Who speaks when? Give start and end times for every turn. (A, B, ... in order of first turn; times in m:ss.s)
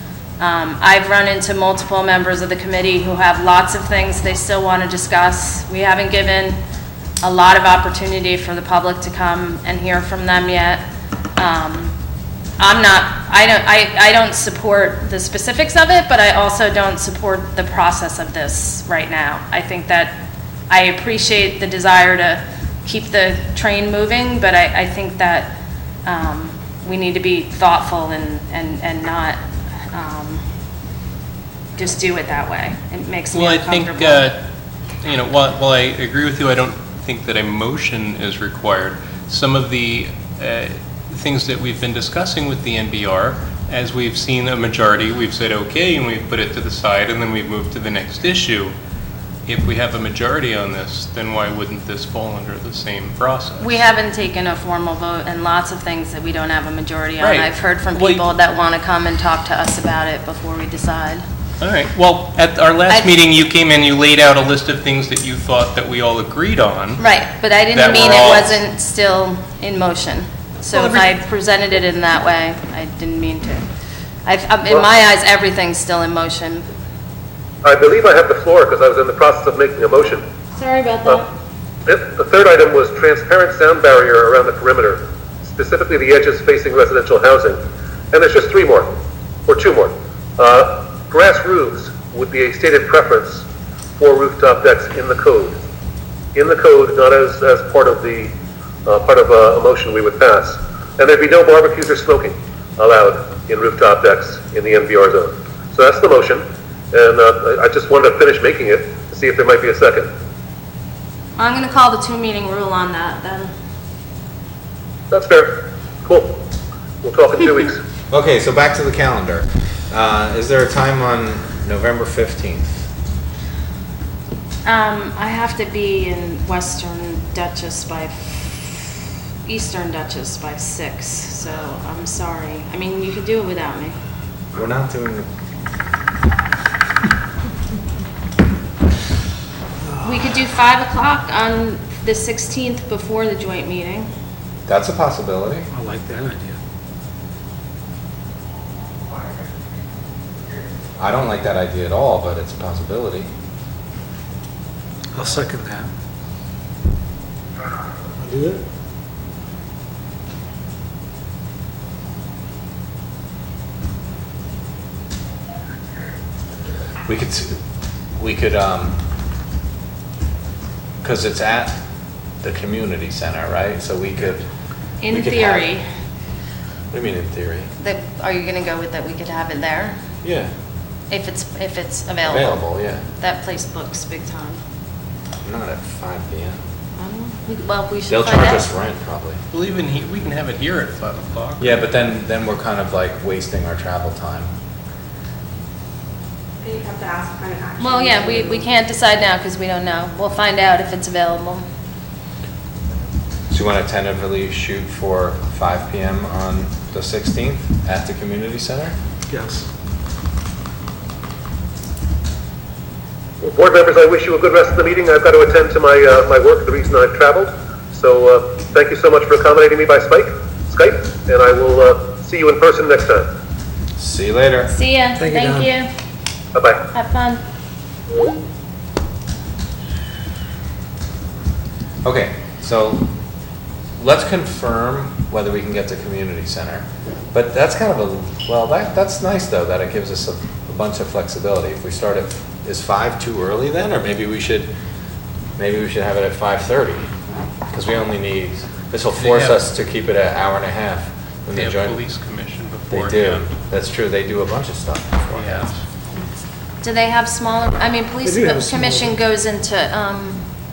0:00.4-0:06.6 A
0:07.2-0:10.8 A
0:11.4-0:12.0 A
0:12.6-0:29.4 A
0:29.9-0:30.4 A
0:31.8-0:34.3 A
0:33.3-0:34.4 B
0:35.0-0:48.7 B
0:49.4-0:53.8 B
0:53.6-1:01.2 A
0:57.2-0:58.2 B
1:01.6-1:07.0 B
1:07.0-1:13.7 A
1:07.7-1:08.6 B
1:10.7-1:11.1 B
1:14.2-1:16.6 A
1:17.6-1:20.2 C
1:20.5-1:21.3 A
1:21.8-1:27.6 C
1:28.1-1:28.9 C
1:29.5-1:33.4 C
1:34.0-1:35.6 C
1:36.3-1:38.3 C
1:38.8-1:50.1 C
1:51.4-1:53.5 A
1:55.1-1:56.4 C
1:57.0-1:57.8 C
1:58.1-2:02.9 D
2:04.6-2:14.0 A
2:14.5-2:15.3 D
2:19.8-2:20.1 E
2:20.0-2:24.1 A
2:24.7-2:25.7 D
2:25.7-2:26.6 E
2:31.0-2:33.3 D
2:35.1-2:35.9 E
2:38.2-2:38.6 E
2:47.0-2:47.6 D
2:48.2-2:49.0 D
2:51.0-2:51.8 D
2:52.4-2:54.4 D
2:55.0-2:55.8 A
2:55.1-2:55.7 D
2:56.9-2:57.7 D
2:57.8-3:00.0 A
3:00.2-3:00.5 D
3:01.1-3:04.6 A
3:02.2-3:03.0 D
3:05.4-3:06.6 D
3:07.0-3:08.6 A
3:08.1-3:09.4 D
3:09.5-3:11.8 B
3:11.6-3:14.5 D
3:16.6-3:18.6 F
3:17.8-3:21.6 A
3:23.5-3:29.0 D
3:29.3-3:29.7 E
3:33.4-3:43.3 C
3:44.0-3:44.7 D
3:44.7-3:45.9 A
3:45.2-3:45.7 E
3:46.5-3:46.8 C
3:46.9-3:47.4 A
3:52.0-3:53.1 D
3:54.0-4:04.7 D
4:05.6-4:07.1 D
4:07.7-4:12.0 D
4:09.2-4:09.6 B
4:11.5-4:13.4 B
4:12.9-4:15.7 D
4:15.3-4:15.8 B
4:16.8-4:20.4 A
4:18.2-4:19.2 E